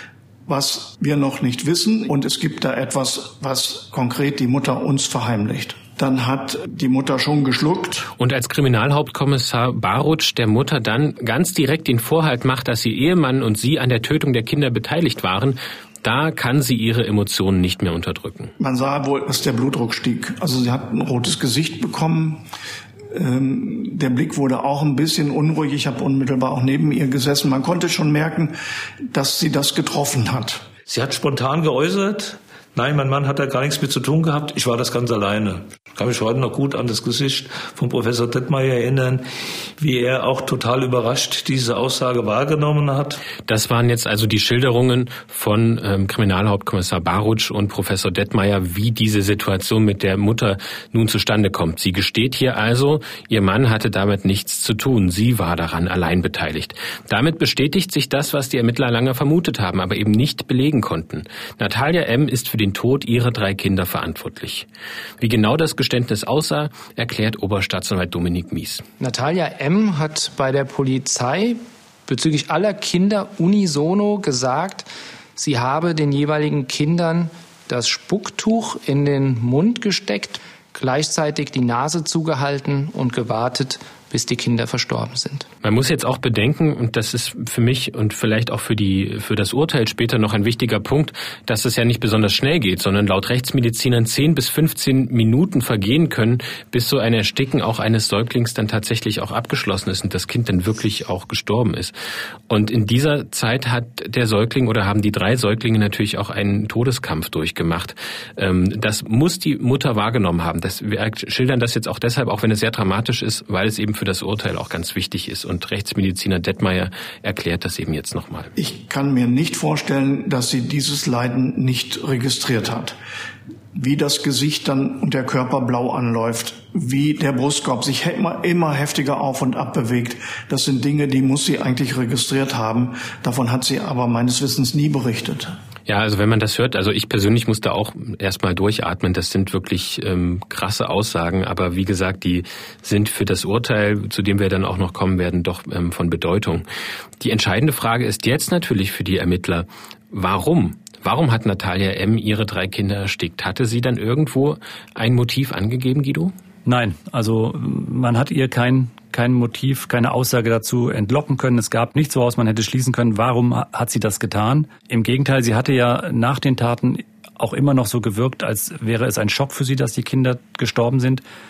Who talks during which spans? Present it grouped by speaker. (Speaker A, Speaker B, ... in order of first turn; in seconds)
Speaker A: 0.5-8.1, 18.6-22.4, 23.1-28.6, 29.1-30.7, 118.6-123.0, 123.7-135.5
Speaker B: 8.2-18.5, 43.5-64.7, 65.2-68.8, 85.6-102.0, 102.5-118.5, 135.9-146.7, 147.2-156.3
Speaker C: 30.9-39.3, 39.8-43.2
Speaker D: 69.0-85.5
Speaker E: 156.7-171.2